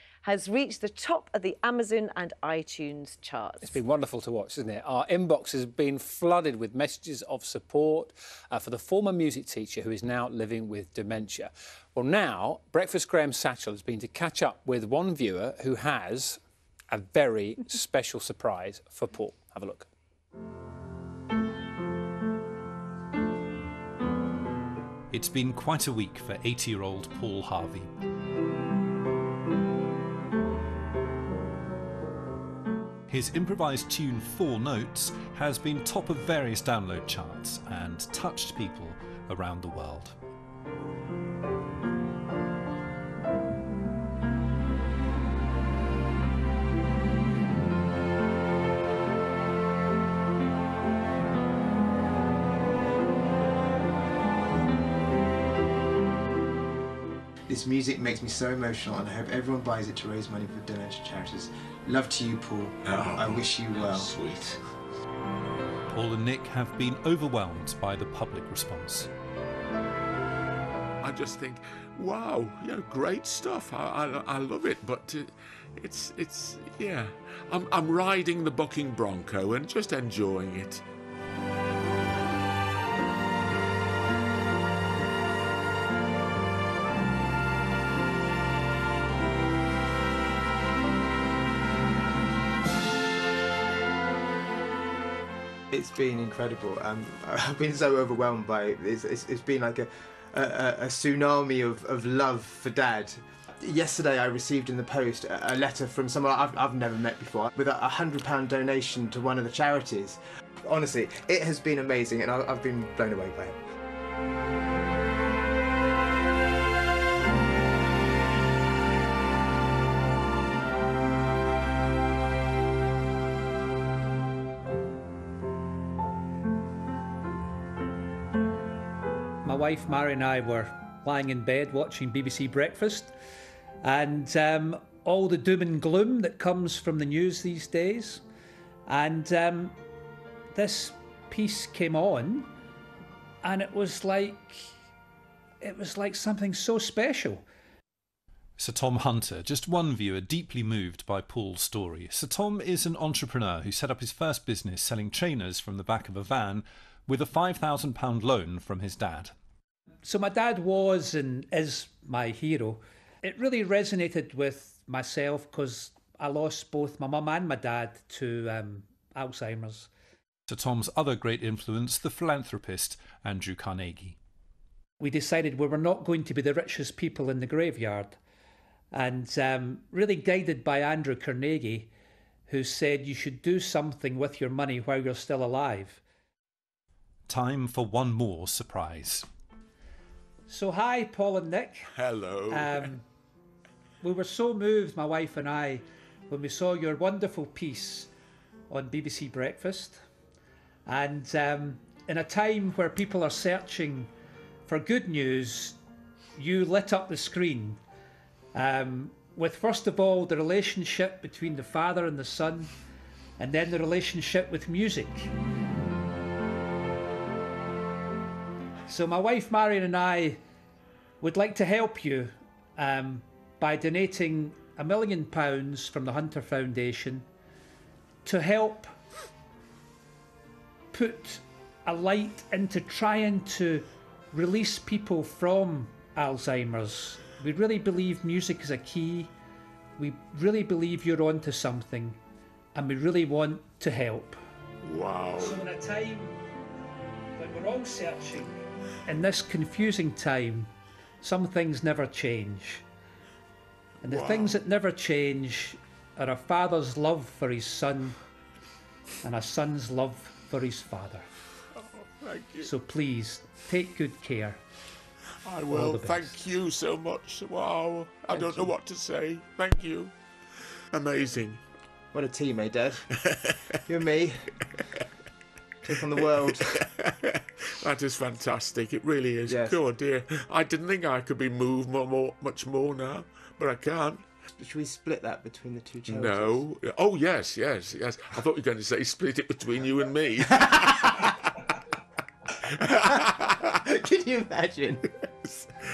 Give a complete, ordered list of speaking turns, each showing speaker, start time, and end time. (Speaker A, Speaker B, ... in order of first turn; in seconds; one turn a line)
Speaker A: 0.2-3.8
Speaker B: 3.6-16.4
Speaker B: 16.9-19.9
Speaker C: 25.1-27.9
Speaker C: 33.1-40.1
Speaker D: 57.5-64.2
Speaker E: 62.8-64.6
Speaker C: 65.9-69.1
Speaker E: 71.0-80.8
Speaker D: 95.7-113.6
Speaker F: 129.4-133.1
Speaker F: 133.8-138.2
Speaker F: 138.9-139.8
Speaker F: 140.5-142.5
Speaker F: 143.4-144.7
Speaker F: 145.6-147.4
Speaker C: 148.6-159.3
Speaker F: 160.0-169.9
Speaker C: 170.5-174.2
Speaker F: 175.0-178.2
Speaker F: 178.9-181.9
Speaker F: 182.5-186.0
Speaker C: 187.3-189.2
Speaker F: 190.5-191.9
Speaker E: 191.9-192.9
Speaker F: 192.5-193.0
Speaker F: 194.0-198.1
Speaker F: 198.7-200.0
Speaker F: 200.9-204.1
Speaker F: 204.7-205.8
Speaker F: 206.3-207.8
Speaker F: 208.5-212.7
Speaker F: 213.4-215.3
Speaker F: 218.9-220.4
Speaker F: 221.2-227.2
Speaker F: 228.2-228.9
Speaker F: 230.9-239.3
Speaker F: 240.0-242.2
Speaker F: 242.7-244.4
Speaker E: 244.8-245.6
Speaker F: 245.4-246.4
Speaker F: 247.4-250.7
Speaker F: 251.2-252.8
Speaker E: 254.0-254.6
Speaker F: 254.0-258.2
Speaker F: 259.2-261.2
Speaker E: 261.8-262.7
Speaker F: 262.6-264.6
Speaker E: 265.4-270.1
Speaker F: 265.7-266.4
Speaker D: 268.4-268.6
Speaker E: 270.9-271.6
Speaker D: 272.1-273.0
Speaker E: 273.2-273.5
Speaker D: 273.9-274.4
Speaker D: 275.8-276.8
Speaker E: 276.1-284.2
Speaker D: 279.5-279.8
Speaker D: 284.6-286.7
Speaker E: 286.1-291.3
Speaker D: 290.5-290.8
Speaker E: 292.9-293.5
Speaker D: 293.9-295.6